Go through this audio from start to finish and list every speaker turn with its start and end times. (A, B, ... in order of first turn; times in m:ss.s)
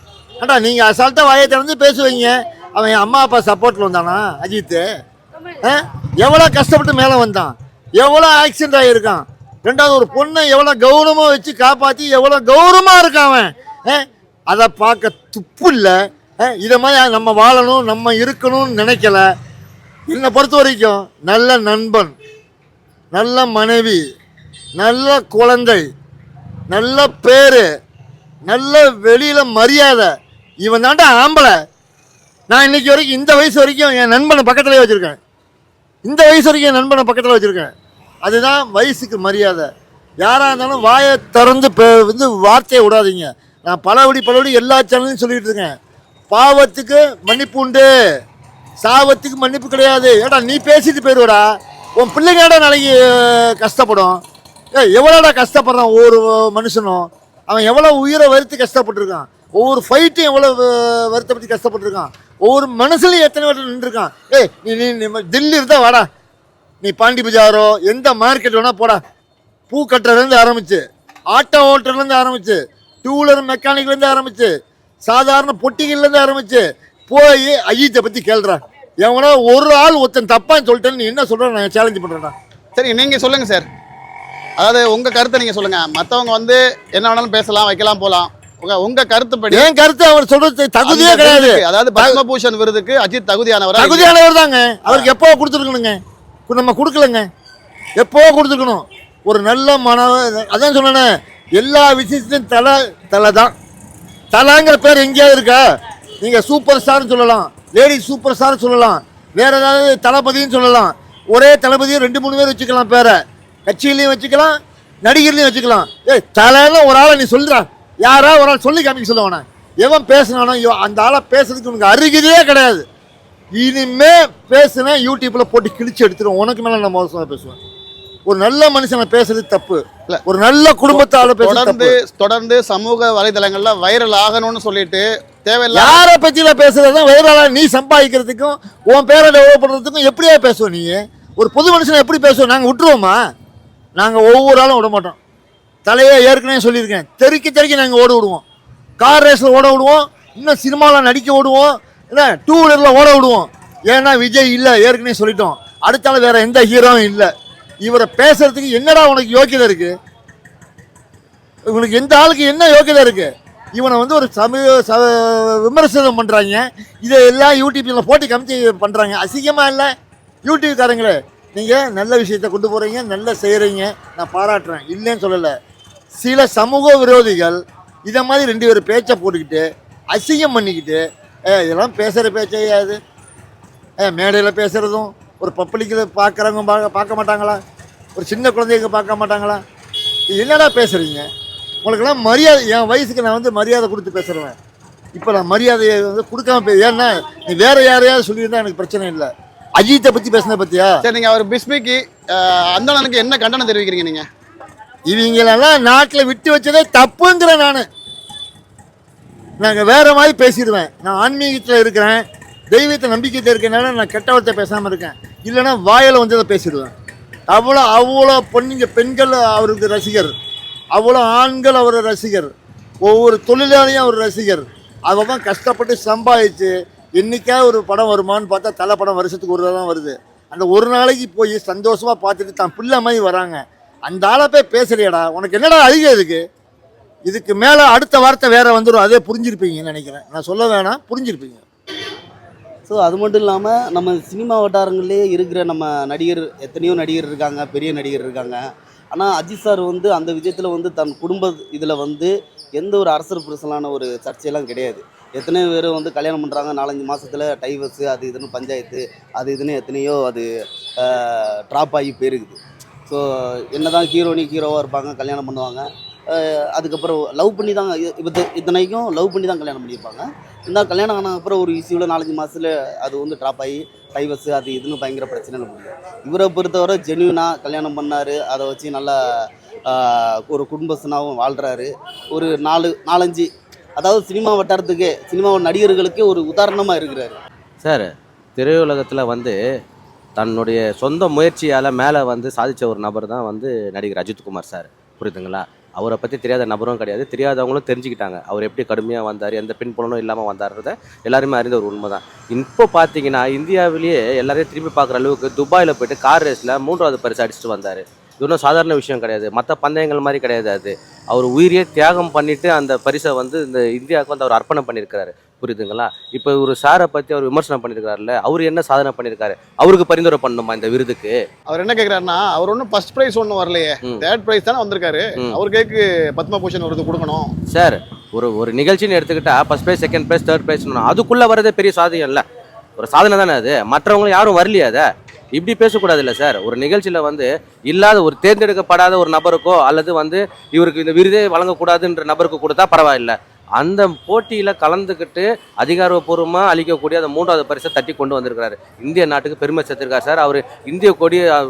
0:00.4-0:04.8 A
0:05.6-0:19.2 A
0:20.1-0:22.1 A
0:23.1-0:24.0 A
0:24.8-0:25.8 A
0:26.7-0:27.6 A
0:28.4-0:30.1 A
0:30.6-0:31.5 A
0:32.5-0:35.2 A
0:36.0-0:37.7 A
0:38.2-0:39.7 A
0:40.2-0:45.7 A
0:46.3-0:47.9 A
0:48.8-0:51.4 A
0:52.0-0:54.2 A
0:54.7-1:06.0 A
1:06.8-1:09.0 A
1:09.7-1:14.5 A
1:15.0-1:22.3 A
1:22.8-1:23.6 B
1:24.6-1:29.7 B
1:29.5-1:32.2 A
1:30.8-1:34.1 B
1:33.8-1:36.0 A
1:36.5-1:37.2 A
1:38.0-1:43.5 A
1:44.3-1:45.6 A
1:46.2-2:02.8 A
2:03.6-2:07.6 A
2:08.2-2:12.0 A
2:10.9-2:16.0 B
2:15.7-2:23.2 A
2:24.0-2:25.2 A
2:25.8-2:28.4 A
2:29.0-2:37.3 A
2:37.8-2:39.9 A
2:41.7-2:49.9 A
2:50.4-2:55.5 A
2:56.1-3:01.0 A
3:01.5-3:03.0 A
3:04.0-3:07.6 A
3:08.2-3:09.6 A
3:10.3-3:11.2 A
3:11.8-3:14.5 A
3:15.1-3:21.0 A
3:21.0-3:24.2 B
3:25.1-3:27.8 A
3:29.6-3:36.9 A
3:37.5-3:40.3 A
3:40.9-3:42.5 A
3:43.0-3:56.4 A
3:57.2-4:01.6 A
4:02.9-4:20.5 C
4:21.0-4:47.4 C
4:47.8-4:49.5 D
4:50.4-5:21.4 D
5:21.7-5:27.5 B
5:27.7-5:32.4 D
5:33.0-5:51.5 D